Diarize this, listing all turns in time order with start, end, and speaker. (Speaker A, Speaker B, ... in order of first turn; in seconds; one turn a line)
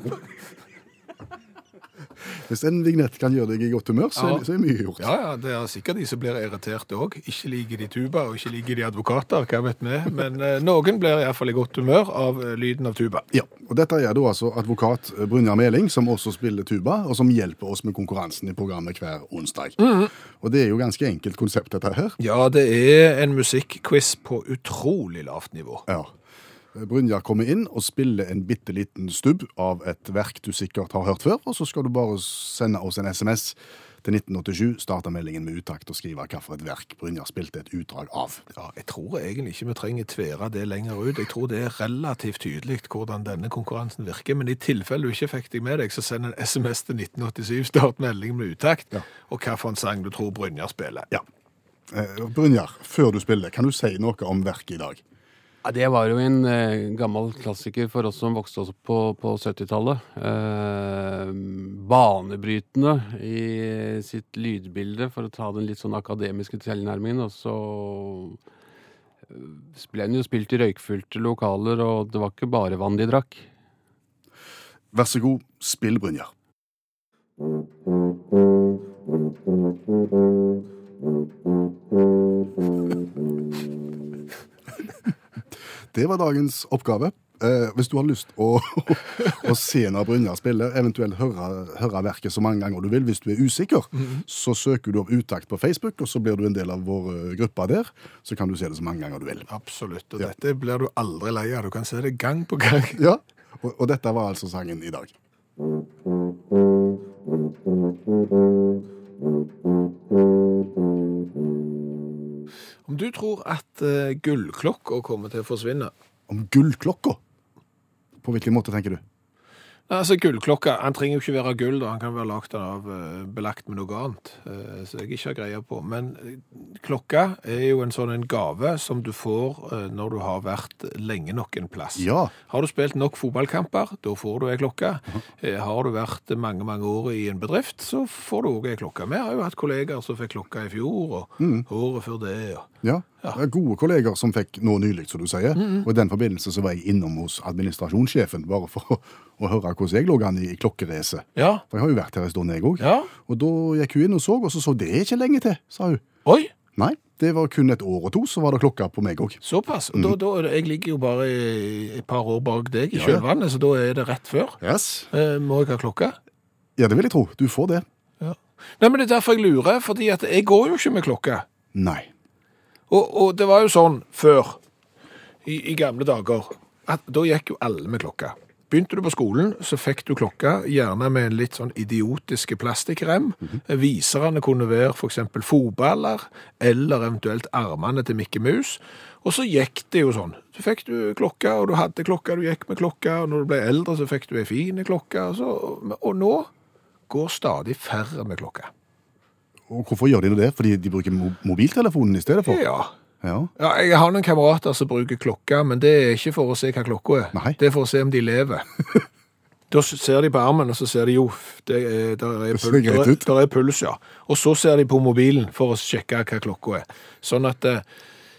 Speaker A: 2.4-5.1
Speaker B: 4.2-4.5
Speaker B: 5.0-13.2
Speaker A: 13.3-19.8
Speaker B: 19.8-20.1
Speaker A: 20.4-22.1
Speaker B: 22.2-25.8
Speaker A: 25.9-26.1
Speaker A: 26.8-38.5
Speaker B: 38.5-51.1
Speaker A: 51.9-55.0
Speaker C: 55.6-68.4
Speaker C: 69.3-73.4
Speaker A: 74.9-76.3
Speaker A: 85.9-99.5
Speaker B: 99.5-103.0
Speaker A: 103.0-105.1
Speaker B: 112.9-115.9
Speaker A: 116.3-117.2
Speaker A: 118.2-119.0
Speaker B: 119.9-142.7
Speaker A: 131.9-132.3
Speaker A: 141.4-141.7
Speaker A: 142.8-156.0
Speaker B: 145.6-145.9
Speaker B: 151.4-151.6
Speaker B: 152.8-153.1
Speaker B: 156.2-156.5
Speaker A: 156.8-159.4
Speaker B: 159.4-164.6
Speaker A: 162.9-163.2
Speaker A: 164.6-165.1
Speaker B: 165.1-166.2
Speaker A: 166.8-167.8
Speaker B: 168.2-171.4
Speaker A: 171.7-172.1
Speaker B: 172.9-174.6
Speaker B: 175.4-196.5
Speaker B: 197.1-198.7
Speaker A: 199.7-202.6
Speaker B: 202.5-202.9
Speaker A: 203.2-203.5
Speaker B: 203.6-208.7
Speaker A: 207.3-207.6
Speaker B: 209.7-217.8
Speaker A: 212.5-213.2